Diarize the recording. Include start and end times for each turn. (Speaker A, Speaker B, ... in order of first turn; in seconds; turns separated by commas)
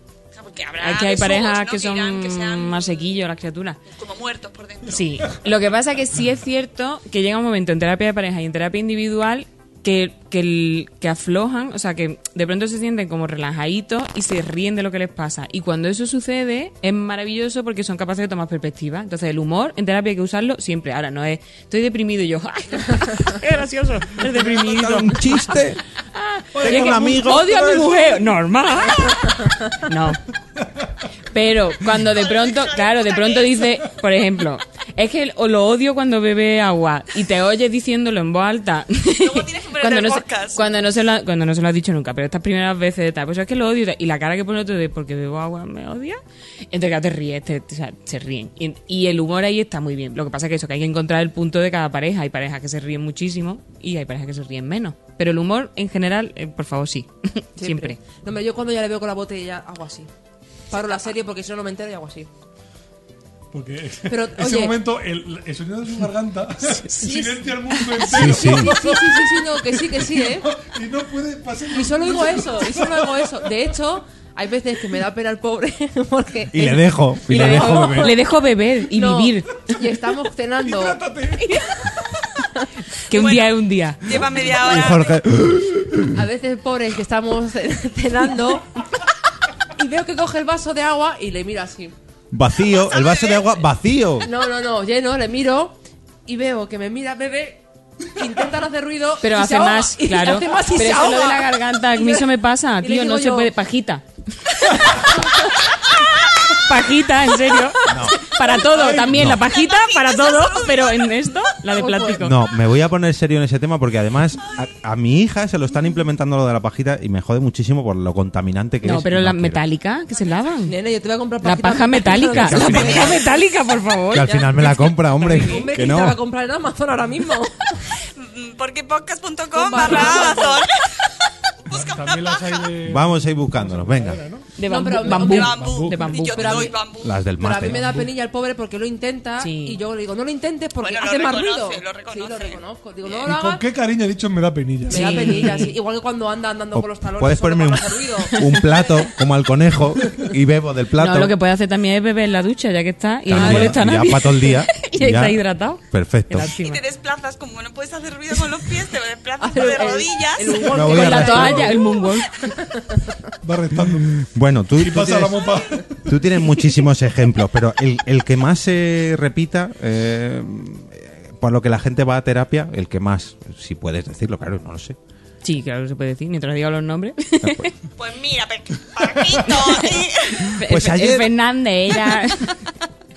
Speaker A: 0.3-3.1, Speaker B: 0.8-3.8, Speaker A: 3.9-5.5, Speaker B: 4.9-25.6, Speaker C: 24.3-25.8, Speaker B: 26.1-30.2, Speaker D: 26.6-27.4, Speaker C: 26.6-28.0, Speaker B: 31.3-46.2, Speaker A: 32.2-33.8, Speaker A: 39.2-40.8, Speaker B: 46.7-58.0, Speaker E: 57.6-60.1, Speaker E: 60.7-62.3, Speaker D: 63.5-73.5, Speaker E: 64.1-64.8, Speaker E: 67.0-70.5, Speaker C: 68.1-68.7, Speaker E: 71.7-78.2, Speaker C: 76.5-78.1, Speaker B: 77.3-79.5, Speaker E: 78.9-81.0, Speaker D: 80.6-81.7, Speaker B: 83.1-84.0, Speaker A: 83.1-85.1, Speaker C: 84.1-86.2, Speaker E: 86.1-88.8, Speaker E: 89.8-91.9, Speaker C: 92.3-94.3, Speaker A: 92.7-93.6, Speaker E: 94.2-97.6, Speaker E: 98.1-102.3, Speaker B: 99.2-104.8, Speaker E: 102.8-103.5, Speaker B: 106.5-112.4, Speaker C: 107.8-108.2, Speaker C: 109.1-109.4, Speaker A: 109.4-111.5, Speaker E: 111.7-112.3, Speaker C: 112.2-119.6, Speaker B: 118.8-120.7, Speaker A: 120.1-120.5, Speaker E: 120.7-123.4, Speaker B: 121.4-125.7, Speaker C: 122.3-123.2, Speaker C: 124.1-126.2, Speaker E: 124.2-127.8, Speaker A: 128.2-131.1, Speaker E: 129.5-130.6, Speaker B: 129.8-130.2, Speaker A: 131.7-132.7, Speaker D: 131.7-134.5, Speaker C: 132.8-134.2, Speaker B: 134.6-136.6, Speaker E: 134.7-136.8, Speaker A: 135.1-137.2, Speaker D: 135.4-136.2, Speaker C: 137.0-137.9, Speaker E: 137.4-143.7, Speaker D: 137.6-138.1, Speaker B: 139.4-139.8, Speaker A: 140.8-143.3, Speaker D: 143.3-145.3, Speaker E: 144.9-148.4, Speaker B: 144.9-145.8, Speaker C: 146.7-151.3, Speaker B: 151.0-156.8, Speaker C: 153.3-156.5, Speaker E: 153.3-153.8, Speaker A: 156.6-160.8, Speaker E: 159.4-162.0, Speaker C: 160.7-161.8, Speaker B: 160.8-162.5, Speaker E: 162.6-163.1, Speaker D: 163.4-164.2, Speaker C: 163.8-165.5, Speaker D: 164.8-166.0, Speaker C: 166.1-175.0, Speaker B: 175.4-177.7, Speaker C: 177.4-177.7, Speaker A: 178.0-180.5, Speaker B: 180.4-182.6, Speaker C: 180.6-181.3